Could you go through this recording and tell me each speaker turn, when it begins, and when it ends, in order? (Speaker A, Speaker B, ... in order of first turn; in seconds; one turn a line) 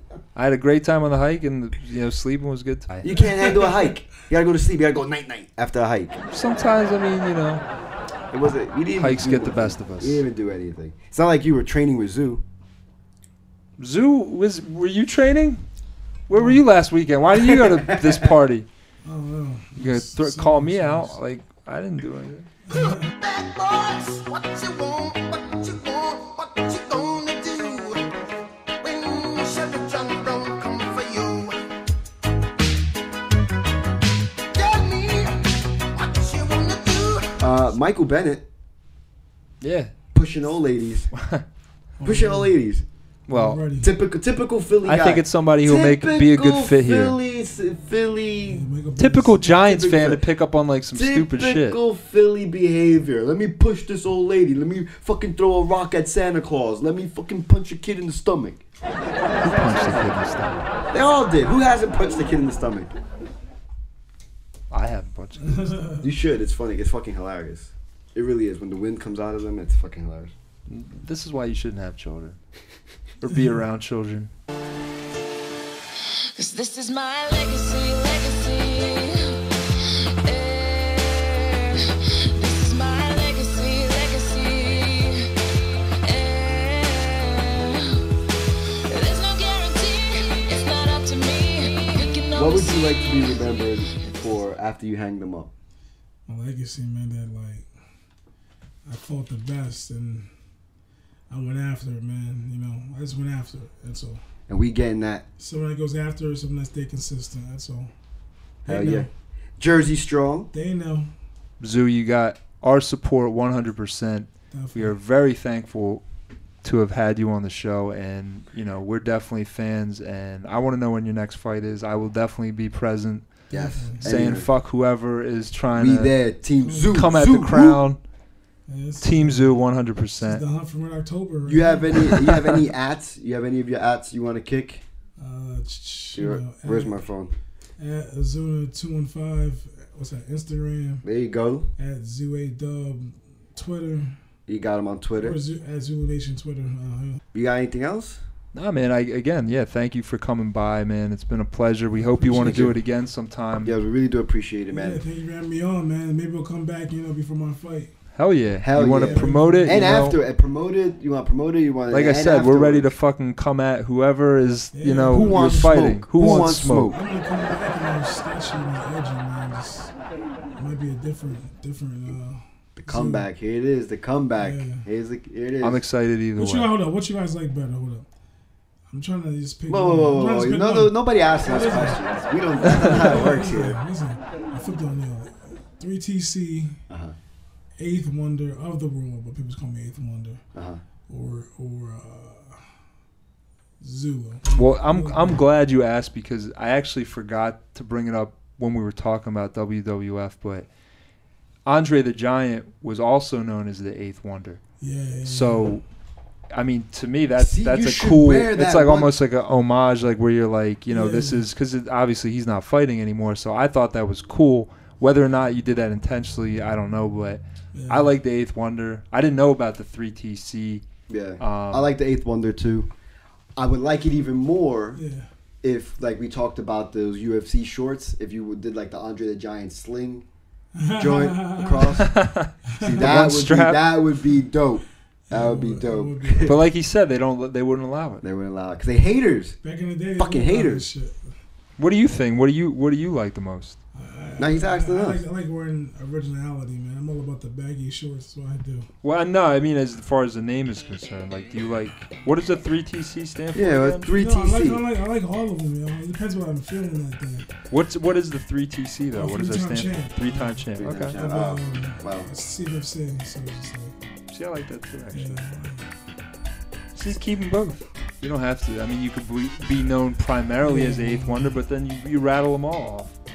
Speaker A: 0.4-3.3
Speaker B: 3.0-6.2
Speaker A: 6.2-7.6
Speaker B: 8.3-12.4
Speaker A: 9.0-10.2
Speaker A: 13.8-15.7
Speaker A: 16.3-18.7
Speaker B: 17.4-18.3
Speaker C: 19.1-21.2
Speaker A: 19.8-22.5
Speaker C: 22.7-23.1
Speaker D: 23.2-28.1
Speaker D: 28.8-31.6
Speaker D: 34.5-37.4
Speaker B: 37.4-38.5
Speaker A: 39.6-39.9
Speaker B: 40.1-41.1
Speaker A: 41.1-41.5
Speaker C: 42.0-42.6
Speaker B: 42.0-42.9
Speaker A: 43.3-43.6
Speaker C: 43.3-43.9
Speaker B: 43.8-48.6
Speaker A: 44.8-47.2
Speaker C: 48.5-49.4
Speaker A: 49.0-51.8
Speaker B: 49.4-50.2
Speaker B: 50.9-58.6
Speaker A: 59.4-60.7
Speaker B: 59.4-60.2
Speaker B: 60.9-63.0
Speaker A: 64.7-66.0
Speaker C: 65.4-66.0
Speaker B: 66.0-70.3
Speaker A: 70.7-72.4
Speaker A: 73.2-74.3
Speaker D: 76.3-85.3
Speaker D: 86.0-88.1
Speaker D: 88.9-94.4
Speaker B: 92.3-95.5
Speaker C: 96.3-97.7
Speaker C: 98.9-100.3
Speaker C: 101.3-104.2
Speaker B: 104.5-105.3
Speaker C: 105.4-107.9
Speaker B: 108.7-110.5
Speaker C: 108.7-109.1
Speaker C: 110.5-111.1
Speaker A: 111.6-116.0
Speaker C: 114.5-114.9
Speaker A: 116.6-123.5
Speaker B: 123.5-124.5
Speaker C: 123.5-124.4
Speaker A: 124.0-126.2
Speaker B: 125.7-127.8
Speaker C: 126.6-127.1
Speaker A: 126.9-128.0
Speaker C: 128.7-129.6
Speaker A: 129.0-130.4
Speaker C: 130.2-131.9
Speaker B: 131.5-134.8
Speaker A: 132.0-132.6
Speaker C: 135.2-137.0
Speaker B: 136.2-137.3
Speaker C: 137.8-141.1
Speaker B: 141.0-141.7
Speaker C: 141.8-144.2
Speaker B: 144.5-145.4
Speaker C: 145.2-147.2
Speaker B: 147.3-148.2
Speaker A: 148.5-153.8
Speaker C: 152.2-152.8
Speaker B: 152.2-152.8
Speaker B: 153.6-155.0
Speaker C: 154.7-157.9
Speaker A: 158.1-160.2
Speaker B: 158.6-162.9
Speaker C: 158.8-159.9
Speaker A: 161.9-166.9
Speaker C: 164.7-169.9
Speaker B: 165.1-167.0
Speaker C: 170.6-173.2
Speaker B: 172.8-175.8
Speaker C: 174.4-174.8
Speaker A: 175.6-176.7
Speaker C: 176.4-178.1
Speaker C: 178.9-182.0
Speaker B: 179.7-183.8
Speaker C: 182.6-186.8
Speaker B: 186.9-187.2
Speaker C: 187.8-190.4
Speaker B: 190.5-190.8
Speaker C: 191.1-192.6
Speaker C: 193.8-195.4
Speaker A: 194.5-200.7
Speaker A: 201.7-204.6
Speaker C: 204.8-205.8
Speaker A: 205.2-205.8
Speaker A: 206.5-220.8
Speaker B: 207.4-209.2
Speaker C: 210.9-211.5
Speaker C: 217.7-218.1
Speaker B: 221.1-222.9
Speaker A: 221.4-221.9
Speaker B: 223.6-225.0
Speaker C: 225.0-225.3
Speaker B: 225.6-230.2
Speaker C: 230.8-232.1
Speaker B: 230.9-232.2
Speaker A: 232.0-234.0
Speaker C: 232.7-233.1
Speaker B: 232.8-236.6
Speaker C: 235.3-236.6
Speaker A: 236.4-238.2
Speaker B: 238.2-239.6
Speaker C: 239.6-241.3
Speaker B: 240.2-240.9
Speaker A: 241.8-243.8
Speaker C: 243.9-248.9
Speaker B: 244.4-245.2
Speaker A: 249.0-254.1
Speaker B: 253.5-254.9
Speaker C: 254.1-257.5
Speaker A: 257.7-261.2
Speaker C: 259.1-263.9
Speaker B: 260.8-262.3
Speaker A: 264.3-265.4
Speaker C: 265.1-265.9
Speaker A: 266.9-273.2
Speaker C: 270.6-271.6